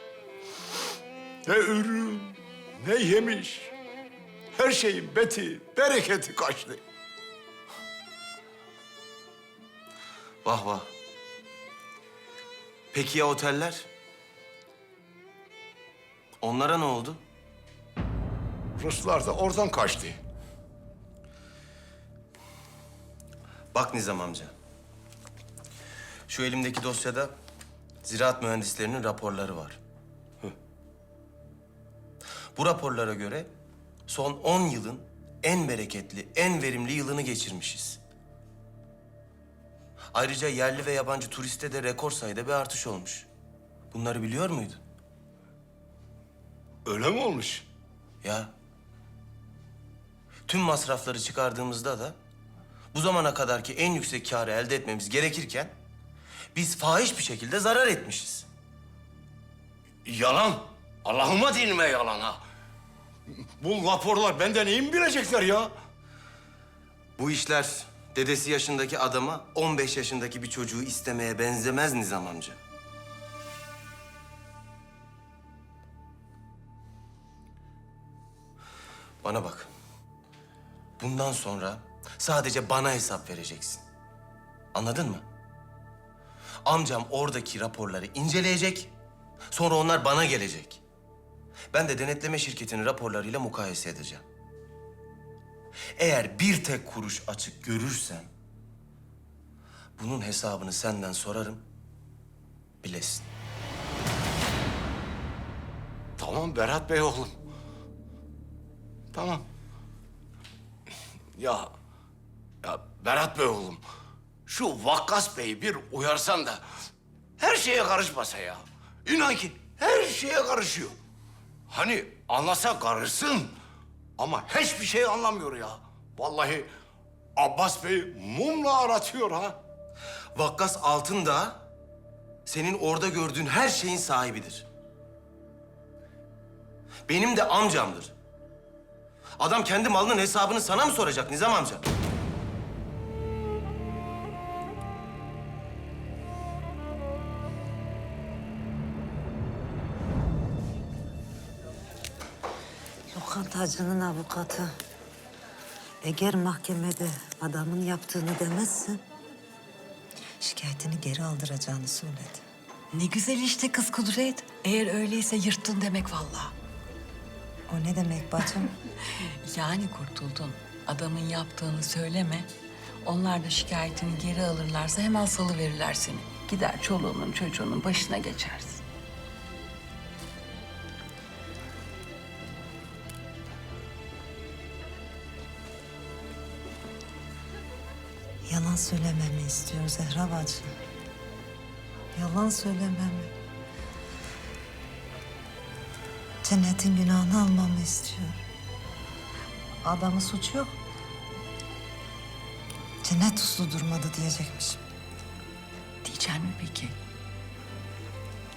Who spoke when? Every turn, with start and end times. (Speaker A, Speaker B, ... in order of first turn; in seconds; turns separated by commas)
Speaker A: 1.4-3.7, Speaker A: 4.5-6.8, Speaker B: 10.4-10.9, Speaker B: 12.9-13.9, Speaker B: 16.4-17.2, Speaker A: 18.8-20.2, Speaker B: 23.7-24.5, Speaker B: 26.3-27.3, Speaker B: 28.0-29.8, Speaker B: 32.5-33.5, Speaker B: 34.1-38.0, Speaker B: 40.1-43.3, Speaker B: 43.9-44.8, Speaker A: 46.9-47.6, Speaker B: 48.2-48.5, Speaker B: 50.5-52.1, Speaker B: 52.9-55.7, Speaker B: 56.5-58.5, Speaker A: 60.0-62.4, Speaker A: 63.6-65.7, Speaker B: 67.2-72.6, Speaker B: 79.2-79.7, Speaker B: 81.0-83.8, Speaker B: 84.7-85.2, Speaker B: 86.6-88.9, Speaker B: 89.5-90.8, Speaker B: 91.7-94.2, Speaker B: 96.0-98.3, Speaker B: 100.0-101.6, Speaker B: 102.8-103.2, Speaker A: 106.2-107.3, Speaker A: 109.1-109.4, Speaker A: 111.3-111.7, Speaker A: 112.6-113.8, Speaker A: 114.5-116.6, Speaker A: 117.4-120.9, Speaker A: 121.7-123.5, Speaker A: 124.2-126.7, Speaker A: 127.4-129.6, Speaker B: 130.3-131.6, Speaker B: 132.5-134.7, Speaker B: 137.1-138.1, Speaker B: 139.4-141.8, Speaker C: 153.1-154.7, Speaker C: 156.0-159.0, Speaker C: 160.4-162.4, Speaker D: 162.9-166.5, Speaker C: 167.7-168.7, Speaker D: 169.4-172.5, Speaker D: 173.0-178.8, Speaker C: 188.4-190.7, Speaker C: 192.1-193.3, Speaker C: 196.4-198.4, Speaker C: 199.8-200.7, Speaker C: 203.0-204.8, Speaker D: 206.0-206.9